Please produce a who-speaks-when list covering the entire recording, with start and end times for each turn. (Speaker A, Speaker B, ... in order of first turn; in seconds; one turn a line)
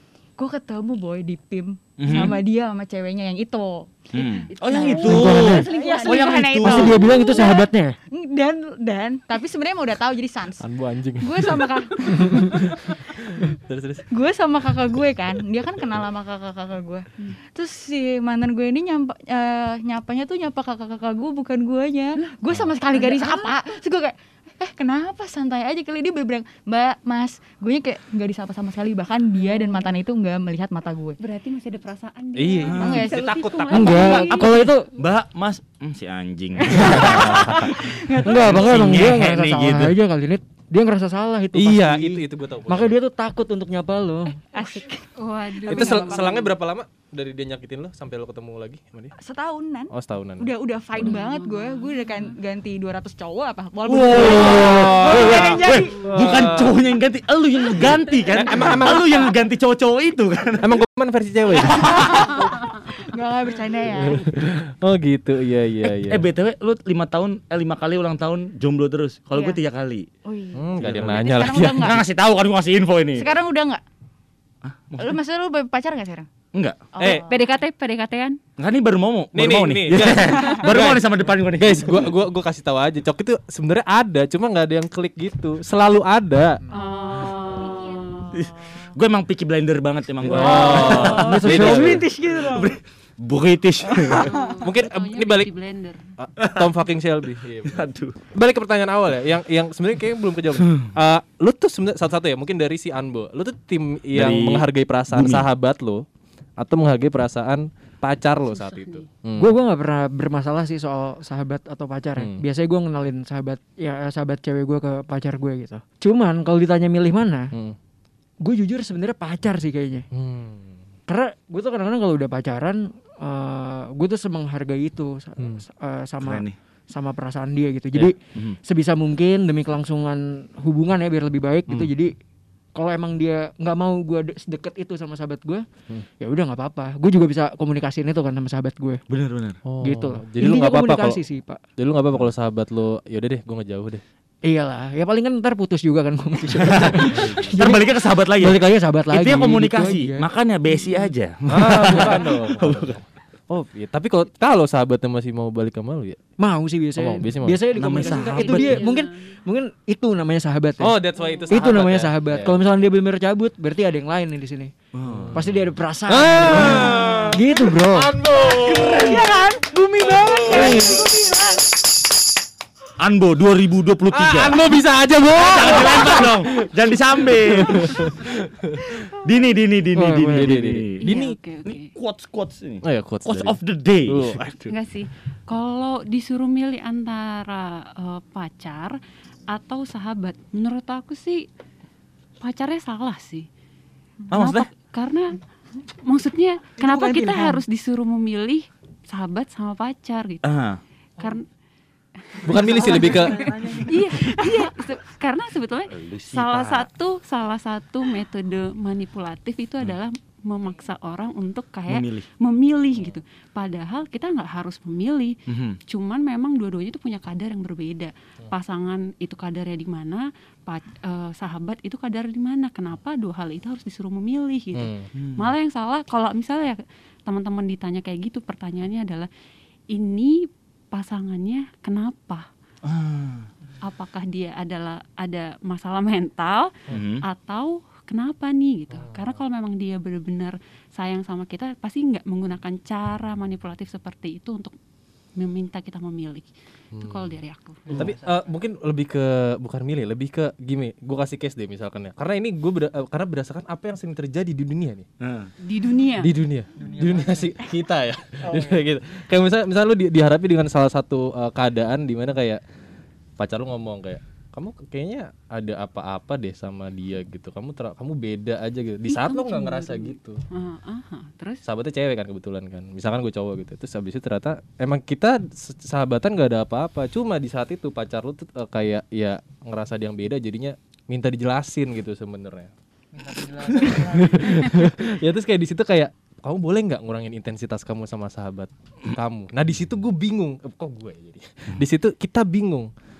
Speaker A: 0.4-10.7
Speaker B: 2.0-2.4
Speaker B: 4.1-7.0
Speaker C: 4.5-6.5
Speaker D: 4.9-5.7
Speaker D: 6.6-8.0
Speaker E: 10.6-14.0
Speaker A: 11.2-12.7
Speaker D: 12.2-12.6
Speaker A: 14.1-31.2
Speaker C: 22.9-23.5
Speaker C: 29.4-29.9
Speaker C: 31.2-34.6
Speaker E: 32.4-33.0
Speaker B: 32.6-39.9
Speaker A: 32.7-33.2
Speaker D: 33.7-34.9
Speaker A: 33.9-34.5
Speaker A: 36.6-38.8
Speaker E: 36.9-37.6
Speaker D: 38.2-44.4
Speaker E: 41.5-42.9
Speaker A: 44.5-46.5
Speaker C: 45.2-46.5
Speaker E: 45.7-49.1
Speaker A: 49.2-56.1
Speaker E: 49.9-50.5
Speaker C: 51.0-52.3
Speaker B: 53.9-60.8
Speaker E: 54.2-56.8
Speaker E: 58.3-59.1
Speaker E: 60.6-62.0
Speaker B: 61.5-62.5
Speaker A: 61.6-64.2
Speaker E: 63.9-66.3
Speaker B: 66.1-70.1
Speaker A: 69.3-69.6
Speaker A: 70.2-72.0
Speaker E: 70.5-72.0
Speaker B: 70.8-73.3
Speaker A: 73.1-73.8
Speaker B: 74.6-75.2
Speaker A: 75.0-76.3
Speaker B: 76.5-77.2
Speaker A: 76.9-77.3
Speaker C: 77.2-78.4
Speaker B: 78.6-82.1
Speaker E: 79.3-86.6
Speaker A: 80.4-80.7
Speaker C: 86.7-88.4
Speaker A: 87.8-88.9
Speaker B: 88.3-94.3
Speaker E: 90.2-92.0
Speaker D: 90.3-92.1
Speaker A: 91.9-92.7
Speaker A: 93.9-94.6
Speaker C: 94.2-96.0
Speaker E: 94.6-95.5
Speaker E: 96.2-97.8
Speaker B: 97.6-98.2
Speaker E: 98.3-106.0
Speaker B: 100.6-100.9
Speaker B: 104.1-105.5
Speaker E: 106.6-109.5
Speaker C: 108.4-109.0
Speaker D: 109.3-117.5
Speaker E: 112.2-112.4
Speaker D: 118.4-120.1
Speaker E: 120.1-120.8
Speaker D: 121.1-132.1
Speaker B: 126.2-126.5
Speaker D: 132.7-135.7
Speaker D: 136.2-139.0
Speaker B: 139.1-139.6
Speaker E: 139.6-141.2
Speaker D: 139.8-141.6
Speaker E: 141.8-144.0
Speaker D: 144.4-150.2
Speaker B: 146.6-153.0
Speaker E: 147.1-147.7
Speaker E: 151.5-156.2
Speaker D: 156.4-161.0
Speaker E: 156.9-157.9
Speaker B: 157.7-158.8
Speaker C: 157.9-159.3
Speaker E: 160.8-162.7
Speaker C: 161.2-161.6
Speaker D: 161.5-164.7
Speaker B: 164.9-165.3
Speaker E: 165.1-169.2
Speaker D: 165.3-168.1
Speaker B: 166.5-166.9
Speaker A: 168.6-171.6
Speaker B: 168.6-169.2
Speaker E: 170.2-171.0
Speaker B: 170.5-170.9
Speaker B: 173.0-174.6
Speaker E: 174.1-176.7
Speaker B: 175.3-178.3
Speaker E: 177.2-178.9
Speaker B: 179.0-181.0
Speaker D: 179.9-180.6
Speaker E: 180.3-181.4
Speaker C: 181.0-181.8
Speaker B: 181.6-184.7
Speaker E: 182.8-184.5
Speaker C: 184.7-191.4
Speaker C: 192.4-193.5
Speaker B: 194.3-194.7
Speaker C: 194.3-195.4
Speaker C: 196.0-200.4
Speaker A: 196.8-197.6
Speaker B: 200.4-200.8
Speaker C: 201.2-201.5
Speaker C: 202.2-215.4
Speaker E: 202.4-203.4
Speaker B: 202.9-203.9
Speaker A: 204.4-204.7
Speaker B: 205.9-206.9
Speaker B: 211.9-212.2
Speaker B: 215.5-215.8
Speaker C: 215.9-229.3
Speaker E: 224.7-225.1
Speaker B: 225.2-225.5
Speaker C: 229.9-232.5
Speaker B: 232.8-233.5
Speaker C: 233.8-244.7
Speaker B: 236.9-237.2
Speaker E: 238.9-239.4
Speaker C: 245.3-247.8
Speaker E: 246.9-247.3
Speaker D: 247.9-248.4
Speaker E: 247.9-255.1
Speaker B: 255.2-255.5
Speaker C: 255.6-256.3
Speaker E: 256.2-262.6
Speaker D: 256.8-257.5
Speaker E: 263.4-270.4
Speaker C: 269.1-271.6
Speaker E: 271.6-282.7
Speaker D: 283.2-284.9
Speaker E: 283.8-292.9